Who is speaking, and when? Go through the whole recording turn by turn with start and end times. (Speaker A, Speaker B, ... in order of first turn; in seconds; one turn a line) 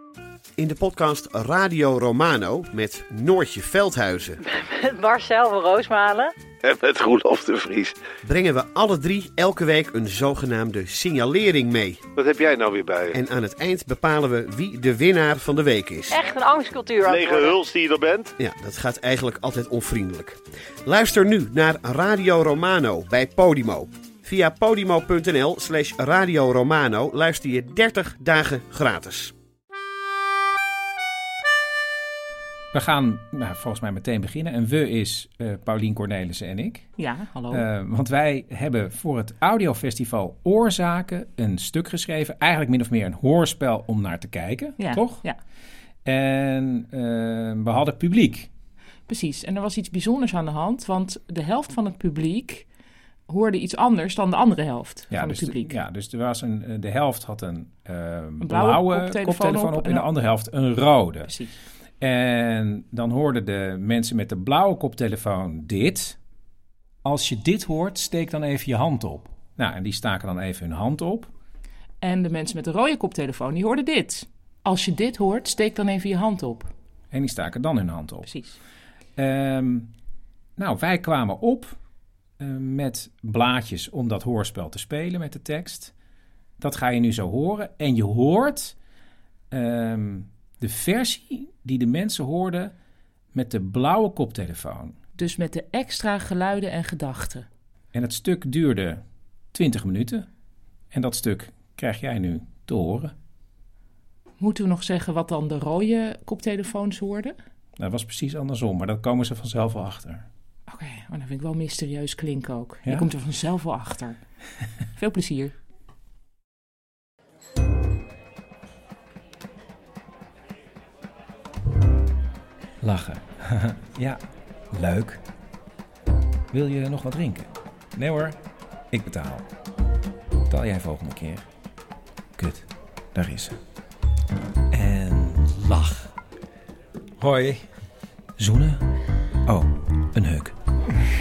Speaker A: 0.6-4.4
Speaker B: 4.4-6.3
Speaker C: 6.6-8.0
Speaker A: 8.2-12.1
Speaker C: 12.1-13.2
Speaker A: 13.1-16.2
Speaker B: 16.1-17.6
Speaker C: 17.0-18.3
Speaker A: 18.4-29.3
Speaker D: 32.7-36.9
Speaker E: 37.0-37.6
Speaker D: 37.5-45.2
Speaker E: 44.8-45.4
Speaker D: 46.0-48.5
Speaker E: 49.1-52.7
Speaker E: 53.3-55.8
Speaker D: 55.1-61.3
Speaker E: 58.4-60.1
Speaker E: 61.2-61.5
Speaker D: 62.0-66.2
Speaker D: 67.0-71.3
Speaker E: 72.0-76.7
Speaker D: 77.1-78.3
Speaker E: 78.2-78.6
Speaker D: 79.2-79.9
Speaker D: 80.6-81.8
Speaker D: 82.4-85.9
Speaker D: 86.6-88.7
Speaker D: 89.5-92.7
Speaker D: 93.3-95.0
Speaker E: 95.2-97.5
Speaker D: 97.9-99.0
Speaker D: 99.5-100.3
Speaker D: 100.9-103.1
Speaker E: 104.4-107.3
Speaker D: 107.8-110.3
Speaker E: 110.7-114.2
Speaker D: 112.8-113.1
Speaker E: 115.0-115.5
Speaker D: 122.8-125.2
Speaker D: 126.5-128.4
Speaker D: 128.9-129.5
Speaker D: 130.5-131.4
Speaker D: 132.4-133.6
Speaker D: 134.7-136.1
Speaker D: 137.2-137.7
Speaker D: 138.4-138.8
Speaker D: 139.4-140.6